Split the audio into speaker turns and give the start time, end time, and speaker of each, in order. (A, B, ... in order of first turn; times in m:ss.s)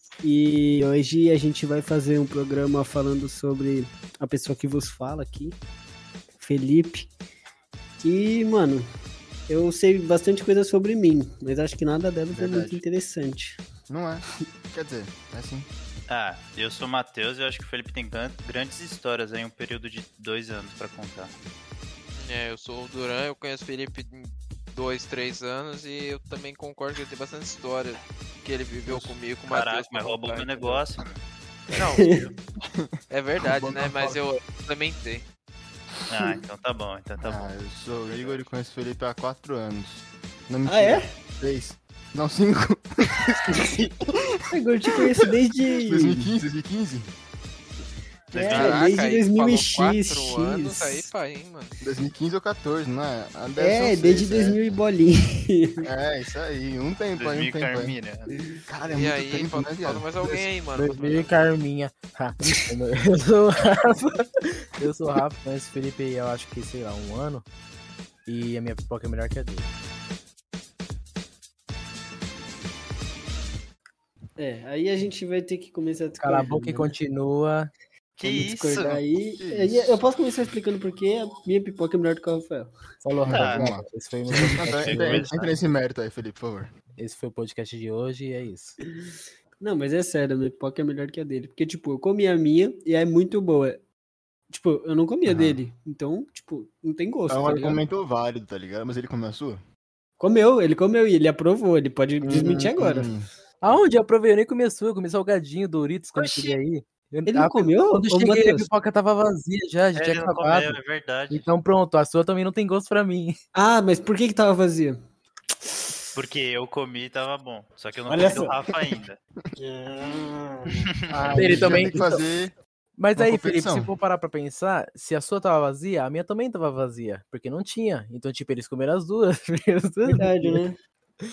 0:00.2-0:05.6 A
0:06.3-0:07.1 A
0:08.0-0:08.9 A
0:09.5-0:13.6 A
0:12.3-0:12.8 B
0:13.9-0:15.7 B
0:16.1-0:21.3 C
0:22.2-0:30.8 D
0:28.9-0:29.1 B
0:29.5-0:31.2 C
0:31.7-0:32.4 A
0:31.7-0:32.2 D
0:32.7-0:34.2 B
0:33.1-0:35.2 D
0:36.1-0:37.5 C
0:37.2-0:44.2 B
0:38.1-0:38.4 C
0:40.6-0:41.1 A
0:43.5-0:43.8 A
0:44.5-0:46.3 A
0:45.8-0:47.1 B
0:48.3-0:48.8 B
0:48.3-0:51.1 A
0:48.3-0:48.8 C
0:48.5-0:51.8 D
0:51.8-0:54.6 B
0:53.6-0:55.8 A
0:55.8-0:58.0 B
0:57.2-0:58.3 C
0:58.6-1:00.4 B
0:58.9-1:01.4 D
1:00.7-1:07.5 E
1:08.2-1:09.7 E
1:14.4-1:16.9 A
1:16.2-1:17.7 E
1:18.2-1:19.0 C
1:18.2-1:22.7 A
1:19.4-1:20.0 B
1:23.0-1:25.4 E
1:23.3-1:23.8 B
1:23.3-1:23.6 C
1:24.4-1:26.7 B
1:24.7-1:25.5 C
1:27.0-1:28.8 E
1:29.2-1:33.8 A
1:34.5-1:37.8 A
1:35.3-1:35.6 B
1:37.3-1:39.6 B
1:40.2-1:43.1 A
1:42.2-1:43.3 B
1:43.6-1:50.8 E
1:46.2-1:46.6 C
1:47.2-1:48.7 A
1:49.9-1:51.4 C
1:51.3-1:53.4 E
1:53.5-1:55.0 A
1:55.6-1:56.1 A
1:56.1-1:59.2 C
1:58.1-1:58.6 A
1:59.6-2:00.9 A
2:01.1-2:02.2 E
2:01.1-2:02.5 B
2:01.5-2:01.9 A
2:03.0-2:10.6 E
2:03.2-2:03.9 B
2:10.0-2:10.8 A